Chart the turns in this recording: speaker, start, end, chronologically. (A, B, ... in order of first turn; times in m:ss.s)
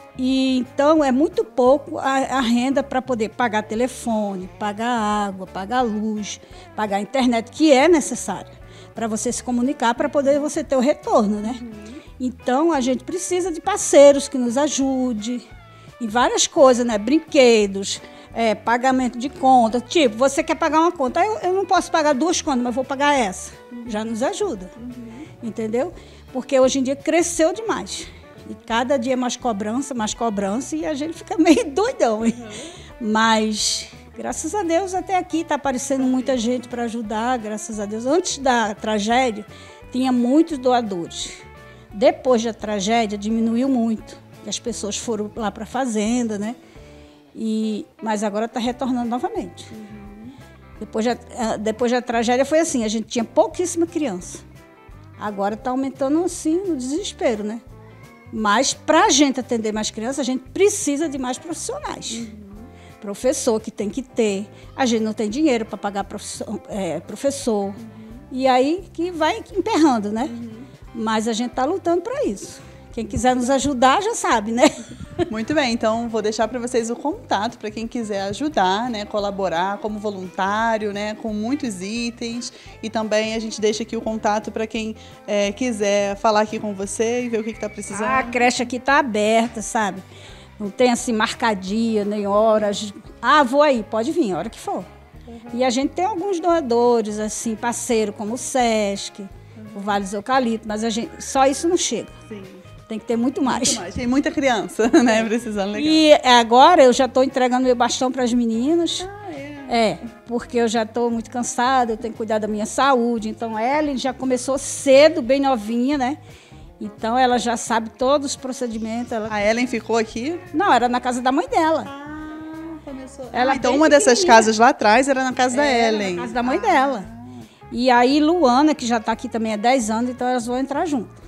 0:00.2-0:11.6 A
0:11.4-0:12.0 B
0:12.2-0:15.4 A
0:16.0-0:24.7 A
0:23.7-0:24.0 B
0:24.8-0:25.2 B
0:25.4-0:32.4 A
0:32.4-0:32.7 B
0:33.0-0:41.4 A
0:36.0-0:36.3 B
0:41.9-0:46.6 A
0:47.3-0:49.7 A
0:49.7-0:50.3 B
0:50.8-0:54.4 A
0:55.2-0:57.6 A
0:58.3-1:02.3 A
1:02.1-1:02.7 B
1:03.0-1:07.8 A
1:08.3-1:10.3 A
1:10.3-1:10.6 B
1:10.9-1:15.2 A
1:15.3-1:28.4 B
1:27.9-1:30.0 A
1:30.6-1:34.8 A
1:35.3-1:35.6 B
1:35.5-1:42.2 A
1:39.6-1:40.0 B
1:42.3-1:42.6 B
1:42.9-1:43.8 A
1:43.4-1:46.0 B
1:45.1-1:49.1 A
1:49.0-1:49.7 B
1:49.7-1:56.2 A
1:56.8-1:59.4 A
1:59.3-2:00.4 B
2:00.5-2:01.9 A
2:01.8-2:07.3 B
2:03.3-2:04.5 A
2:05.5-2:07.1 A
2:07.7-2:11.2 A